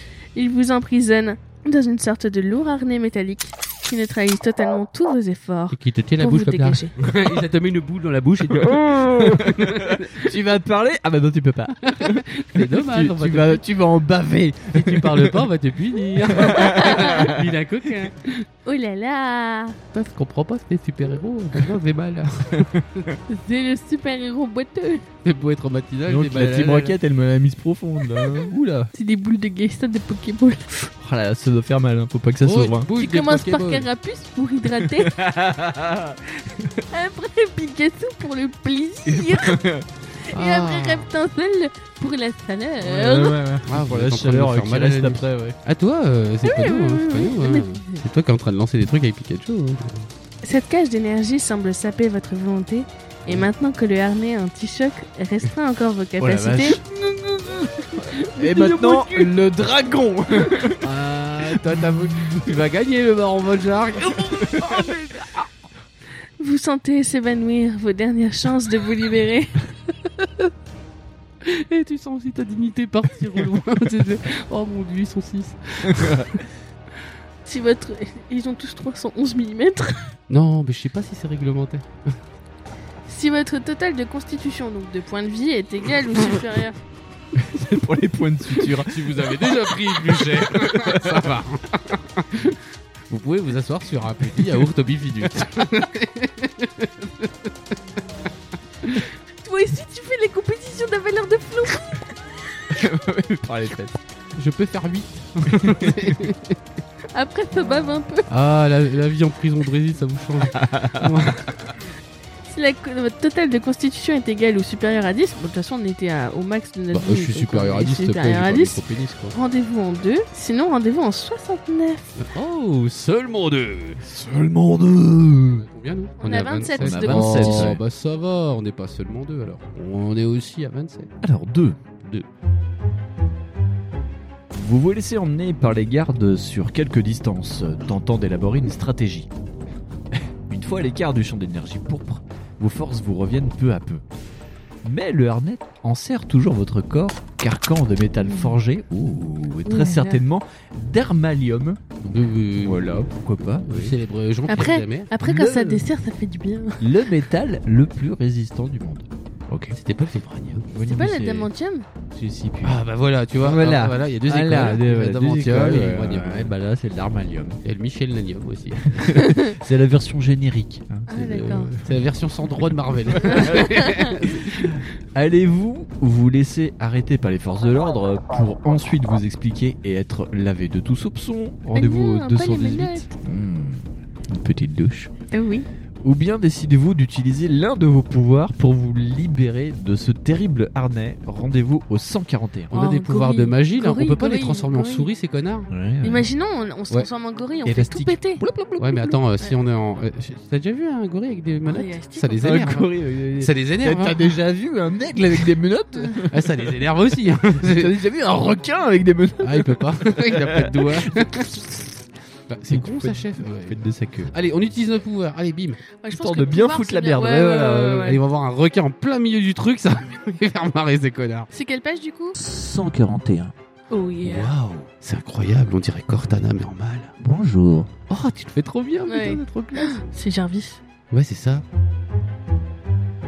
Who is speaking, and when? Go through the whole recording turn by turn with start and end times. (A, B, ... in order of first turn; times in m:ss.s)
0:00.3-0:07.0 A
0:05.7-0:10.3 B
0:08.6-0:15.4 C
0:11.9-0:13.6 B
0:14.7-0:18.4 B
0:16.2-0:17.4 C
0:16.5-0:17.3 A
0:18.6-0:19.8 A
0:19.9-0:23.1 B
0:23.3-0:25.0 A
0:25.2-0:27.0 B
0:26.1-0:28.9 C
0:28.2-0:28.4 A
0:28.9-0:30.9 A
0:31.0-0:32.9 C
0:32.4-0:33.9 B
0:33.0-0:35.2 A
0:34.8-0:36.7 C
0:36.9-0:39.6 A
0:39.1-0:39.9 C
0:40.2-0:43.5 A
0:40.3-0:41.1 B
0:42.8-0:45.6 C
0:43.6-0:50.1 B
0:46.4-0:48.0 A
0:50.4-0:56.8 A
0:56.2-1:02.6 C
0:58.2-0:59.4 A
1:00.7-1:05.5 B
1:04.5-1:04.8 C
1:06.4-1:09.6 A
1:11.4-1:16.4 B
1:15.9-1:16.2 C
1:17.4-1:20.1 A
1:20.3-1:22.2 B
1:23.1-1:26.8 A
1:27.3-1:31.2 C
1:28.7-1:37.5 B
1:39.4-1:42.6 A
1:42.7-1:44.0 C
1:44.3-1:46.6 B
1:47.1-1:48.3 A
1:48.3-1:51.5 B
1:50.5-1:51.1 C
1:52.5-1:58.8 A
1:56.9-1:59.3 B
1:59.3-2:02.2 A
2:02.2-2:04.0 B
2:04.0-2:05.6 C
2:05.6-2:11.1 B
2:06.2-2:07.7 A
2:06.8-2:07.8 C
2:11.2-2:11.8 C
2:14.5-2:19.3 C
2:20.5-2:24.0 C
2:24.8-2:32.1 C
2:28.2-2:28.5 A
2:29.6-2:30.2 A
2:32.1-2:32.9 B
2:32.6-2:33.9 C
2:33.6-2:35.1 B
2:34.5-2:37.1 A
2:35.2-2:35.8 C
2:36.8-2:39.8 C
2:39.7-2:40.7 B
2:40.7-2:41.5 C
2:40.8-2:41.8 A
2:42.1-2:42.8 C
2:42.6-2:46.5 B
2:43.4-2:47.6 C
2:47.6-2:48.9 B
2:48.8-2:52.0 C
2:49.1-2:49.5 A
2:51.1-2:51.7 A
2:51.8-2:54.8 B
2:53.3-2:53.6 C
2:53.4-2:54.1 A
2:54.5-3:05.1 C
3:01.7-3:03.1 A
3:05.3-3:05.7 A
3:06.0-3:12.7 C
3:12.7-3:15.7 B
3:12.7-3:15.1 A
3:15.7-3:16.3 C
3:16.0-3:18.4 A
3:17.6-3:19.2 C
3:18.8-3:24.3 B
3:21.7-3:22.5 A
3:22.4-3:26.7 C
3:26.3-3:28.0 B
3:27.6-3:31.6 C
3:29.4-3:31.6 B
3:32.5-3:35.8 B
3:32.7-3:34.3 C
3:36.0-3:38.2 A
3:36.1-3:38.2 C
3:38.0-3:41.5 B
3:41.5-3:42.4 A
3:42.3-3:43.5 C
3:43.9-3:44.5 A
3:44.2-3:47.1 B
3:47.2-3:47.9 C
3:48.1-3:50.0 B
3:49.1-3:50.8 A
3:51.1-3:51.6 B